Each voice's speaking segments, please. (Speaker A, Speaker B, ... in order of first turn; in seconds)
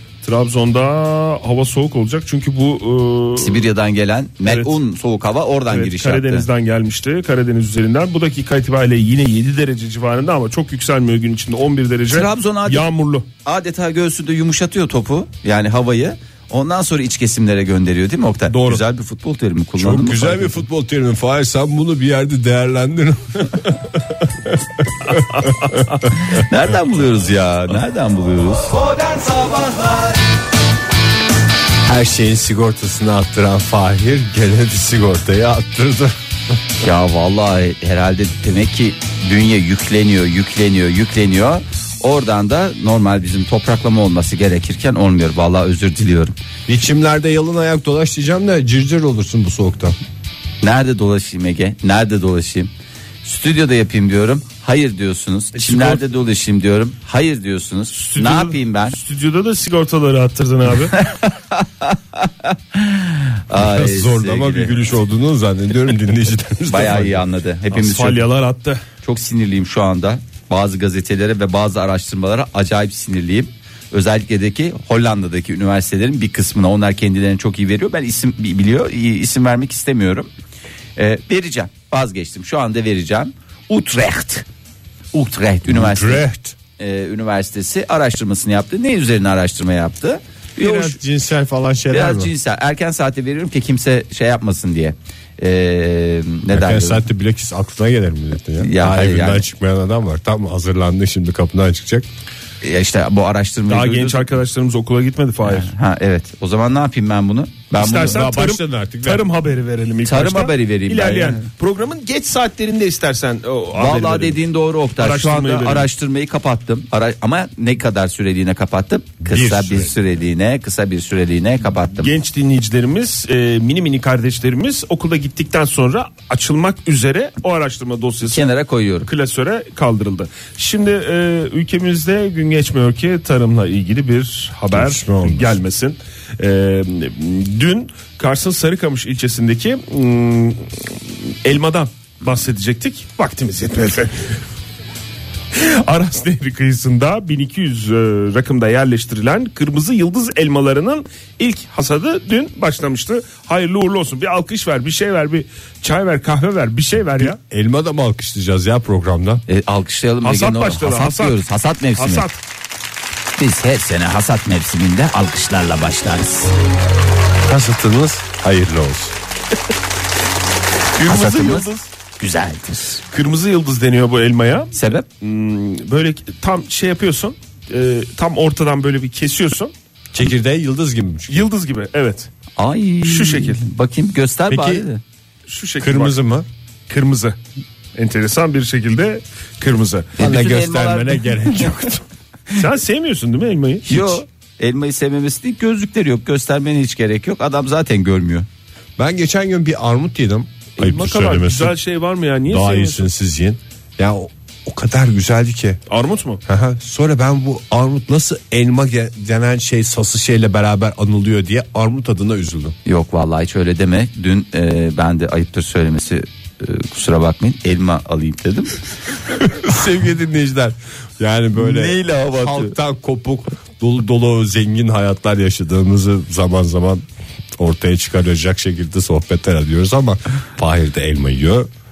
Speaker A: 0.2-3.6, 4.5-4.8, 5.7-13.3, 18.5-18.8, 25.2-26.0, 55.6-56.0, 57.9-61.0, 67.7-68.8, 103.7-105.7, 107.7-114.4, 115.0-115.9, 122.0-128.5, 129.1-144.3, 145.5-157.4, 160.2-161.4, 162.0-162.4, 171.0-171.9, 173.1-179.7, 181.3-182.3, 183.1-183.6, 185.5-186.2, 186.9-187.4, 187.9-190.1, 192.5-194.2, 200.8-203.1, 205.9-206.4
Speaker B: 3.4-6.5, 12.1-12.9, 13.4-20.6, 26.1-30.1, 36.8-46.4, 50.6-52.7, 53.2-59.0, 60.9-64.9, 66.7-68.2, 69.0-80.3, 81.0-84.5, 85.1-86.2, 86.8-91.0, 91.9-97.0, 98.6-99.5, 102.6-104.3, 105.4-108.3, 110.0-111.5, 113.8-122.1, 128.2-129.1, 159.5-162.3, 163.4-166.5, 171.0-173.0, 174.7-175.1, 182.6-185.0, 190.2-191.8, 193.9-198.5, 212.9-218.8, 221.6-222.8
Speaker C: 19.8-25.5, 31.9-36.2, 46.7-50.0, 63.5-67.2, 85.7-86.6, 90.6-92.3, 96.5-102.1, 108.0-109.2, 119.2-119.9, 134.7-135.6, 157.2-159.4, 167.4-169.2, 180.1-181.5, 184.5-184.9, 185.8-186.5, 190.2-192.0, 199.0-201.8, 202.5-205.8, 206.5-212.8, 219.3-227.1, 227.6-231.7